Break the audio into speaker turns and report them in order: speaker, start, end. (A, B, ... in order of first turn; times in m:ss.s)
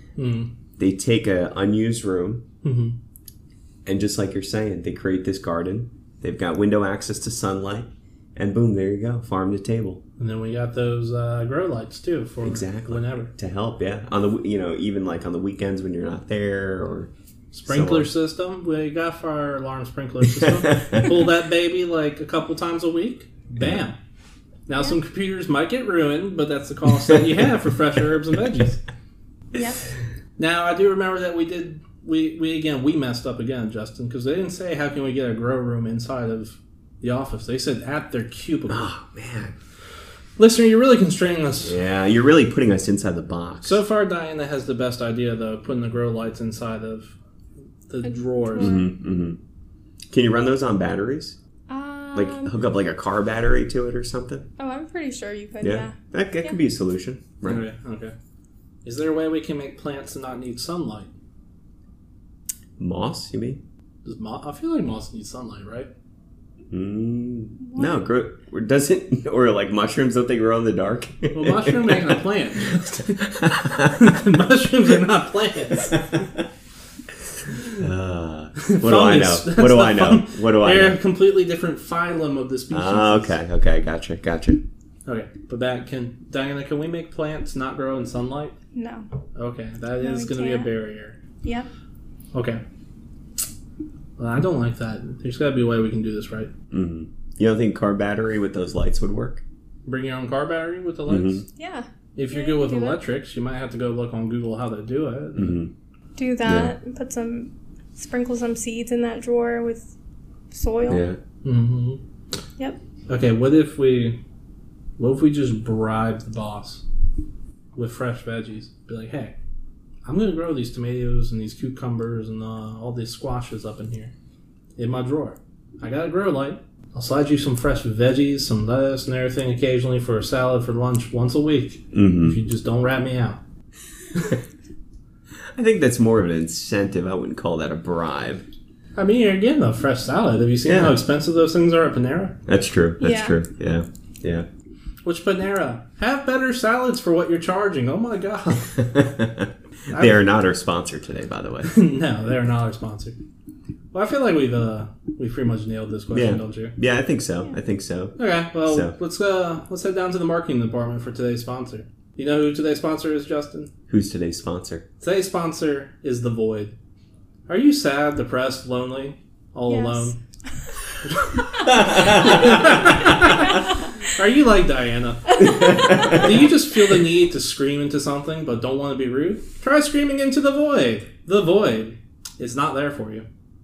0:00.2-0:00.5 A
0:00.8-0:02.4 B
0:02.6-0:03.0 A
0:03.9-0:10.0 B
0:10.2-0:13.3 A
0:12.4-0:17.1 B
0:17.5-0:24.0 A
0:17.7-0:18.1 B
0:20.4-0:21.1 B
0:24.7-0:28.8 A
0:29.5-0:29.8 C
0:30.4-0:38.9 A
0:38.7-0:39.6 B
0:40.4-0:41.8 A
0:41.6-0:43.8 B
0:43.6-0:47.2 A
0:47.9-0:48.8 A
0:48.0-0:48.9 C
0:48.6-0:49.4 B
0:50.1-0:51.4 B
0:51.7-0:52.6 C
0:52.1-0:54.5 B
0:54.6-0:56.6 C
0:55.6-0:57.6 B
0:57.4-0:58.1 A
0:58.8-1:01.1 A
1:02.8-1:03.6 B
1:04.0-1:05.9 A
1:06.7-1:12.2 B
1:07.6-1:08.0 C
1:11.3-1:16.1 A
1:13.1-1:14.1 B
1:15.9-1:16.4 B
1:17.8-1:21.0 B
1:18.6-1:23.4 A
1:22.7-1:24.6 B
1:25.1-1:28.6 A
1:28.7-1:29.1 C
1:29.4-1:31.2 A
1:30.0-1:30.7 C
1:31.4-1:31.7 C
1:32.3-1:32.6 A
1:34.2-1:36.5 A
1:36.7-1:39.4 B
1:39.9-1:41.4 A
1:41.1-1:41.4 B
1:41.6-1:43.0 C
1:42.2-1:45.6 A
1:45.4-1:45.7 B
1:46.2-1:49.9 C
1:46.4-1:46.7 B
1:50.5-1:51.0 C
1:50.9-1:51.2 B
1:51.4-1:52.0 A
1:53.1-1:54.2 A
1:55.0-1:56.8 A
1:57.8-1:59.4 A
2:00.0-2:04.1 A
2:04.8-2:13.4 A
2:11.9-2:12.4 B
2:15.5-2:18.5 B
2:19.0-2:22.4 A
2:20.7-2:21.0 B
2:22.5-2:24.5 B
2:23.0-2:23.4 C
2:25.0-2:28.8 A
2:28.8-2:31.7 B
2:29.9-2:30.2 A
2:31.7-2:33.2 A
2:33.9-2:36.8 A
2:36.1-2:38.9 B
2:38.2-2:43.7 A
2:43.9-2:44.8 B
2:45.0-2:46.8 A
2:47.5-2:50.2 A
2:49.7-2:50.2 C
2:51.1-3:03.3 A
2:51.7-2:52.8 B
2:55.4-2:56.1 C
2:55.4-2:56.3 B